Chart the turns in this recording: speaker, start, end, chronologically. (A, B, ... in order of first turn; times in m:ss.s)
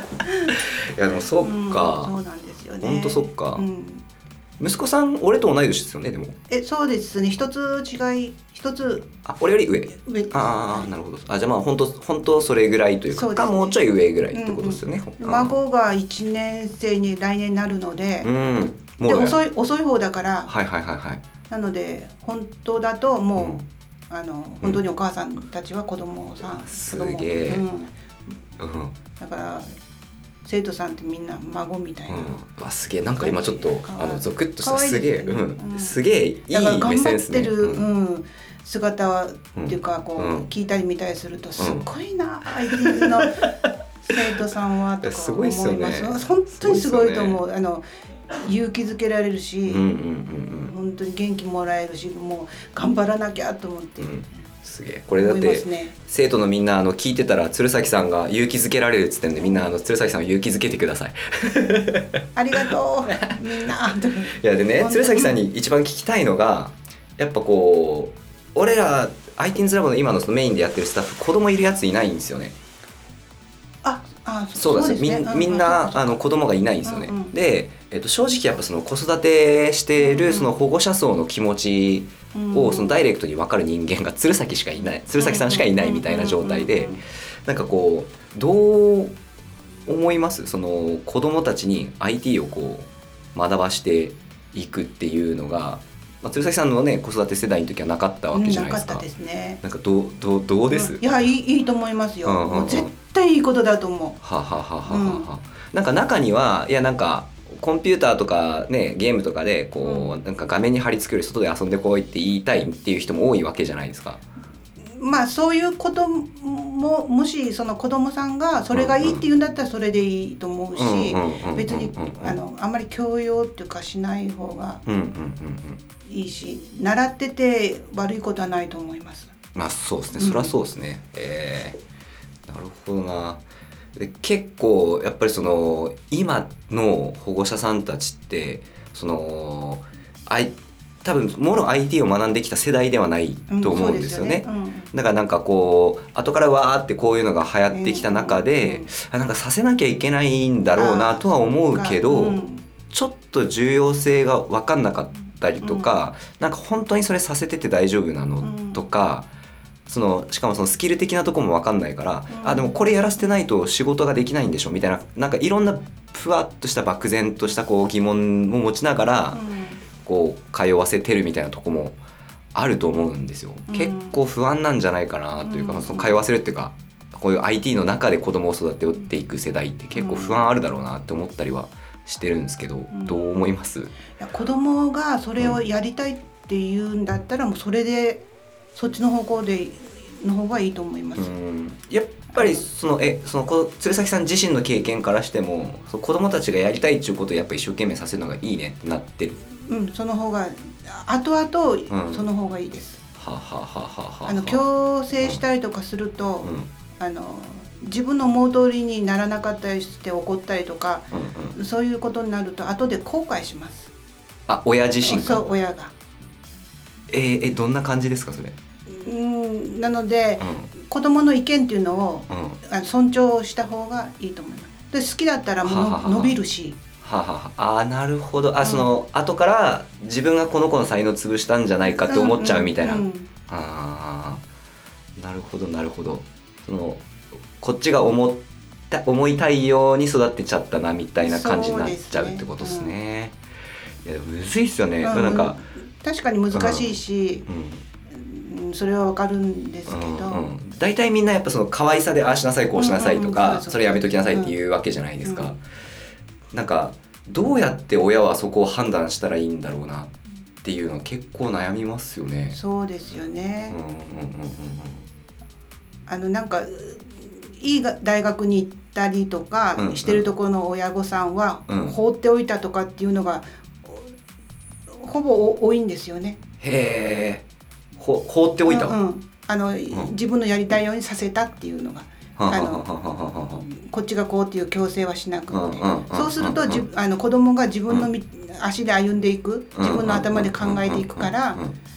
0:00.3-0:00.5 A
0:00.5-0:02.1 B
0:01.4-0:04.0 A
0:02.8-0:03.6 B
0:04.6-0:06.4 B
0:06.5-0:09.1 A
0:09.2-0:15.5 B
0:10.0-0:10.9 A
0:13.1-0:18.3 A
0:18.2-0:19.4 B
0:19.0-0:20.5 A
0:20.5-0:21.2 B
0:21.5-0:27.9 A
0:23.4-0:23.6 B
0:26.6-0:27.6 B
0:28.6-0:29.0 B
0:29.2-0:29.7 A
0:30.4-0:32.4 A
0:32.1-0:37.9 B
0:33.2-0:36.0 A
0:36.5-0:43.5 A
0:39.6-0:40.5 B
0:41.6-0:41.9 B
0:42.6-0:44.2 B
0:44.0-0:49.9 A
0:45.0-0:47.4 B
0:49.7-0:50.7 B
0:50.4-0:54.2 A
0:54.0-1:02.2 B
0:55.2-0:56.0 A
1:02.4-1:05.4 A
1:03.1-1:03.4 B
1:04.4-1:12.5 B
1:13.8-1:16.3 A
1:14.5-1:29.2 B
1:16.8-1:17.4 A
1:20.0-1:20.5 A
1:22.3-1:23.0 A
1:25.2-1:27.0 A
1:29.9-1:39.0 B
1:38.3-1:39.6 A
1:39.6-1:41.1 B
1:40.7-1:44.2 A
1:42.2-1:42.9 B
1:44.2-1:54.2 B
1:44.9-1:45.3 A
1:49.8-1:50.1 A
1:55.0-2:04.8 A
1:58.7-1:59.2 B
2:00.8-2:02.4 B
2:04.9-2:05.8 B
2:06.1-2:09.4 A
2:09.5-2:11.8 B
2:10.2-2:10.5 A
2:12.5-2:13.4 B
2:14.0-2:39.3 B
2:23.5-2:24.9 A
2:27.7-2:28.9 A
2:30.8-2:32.6 A
2:35.6-2:35.9 A
2:38.4-2:38.8 A
2:39.9-2:49.4 B
2:42.3-2:42.8 A
2:49.3-2:49.8 A
2:50.0-2:52.0 B
2:52.5-3:03.9 B
2:53.7-2:54.2 A
2:55.4-2:56.2 A
3:00.0-3:00.5 A
3:02.9-3:03.4 A
3:04.1-3:08.2 A
3:08.8-3:11.3 A
3:11.2-3:19.4 B
3:12.3-3:12.6 A
3:19.6-3:23.0 A
3:21.9-3:22.2 B
3:23.2-3:24.6 B
3:24.2-3:33.9 A
3:31.1-3:31.5 B
3:34.5-3:35.4 B
3:35.0-3:35.9 A
3:37.1-3:38.5 B
3:38.9-3:46.8 A
3:40.4-3:40.7 B
3:42.3-3:42.6 B
3:45.6-3:46.4 B
3:47.0-3:54.4 B
3:48.6-3:48.9 A
3:52.1-3:53.3 A
3:55.2-3:57.0 B
3:57.6-4:03.4 B
4:01.2-4:02.9 A
4:04.0-4:05.6 B
4:05.0-4:07.5 A
4:06.5-4:07.8 B
4:08.1-4:10.4 A
4:09.9-4:15.6 B
4:12.8-4:14.5 A
4:15.2-4:15.5 A
4:16.5-4:20.1 B
4:20.6-4:22.6 B
4:22.5-4:23.8 A
4:23.7-4:25.0 B
4:26.1-4:34.1 A
4:29.8-4:30.2 B
4:31.7-4:32.0 B
4:34.9-4:36.4 A
4:36.6-4:37.4 B
4:38.0-4:39.0 B
4:38.6-4:42.8 A
4:42.4-4:43.6 B
4:43.6-4:51.6 A
4:45.5-4:46.8 B
4:49.8-4:51.7 B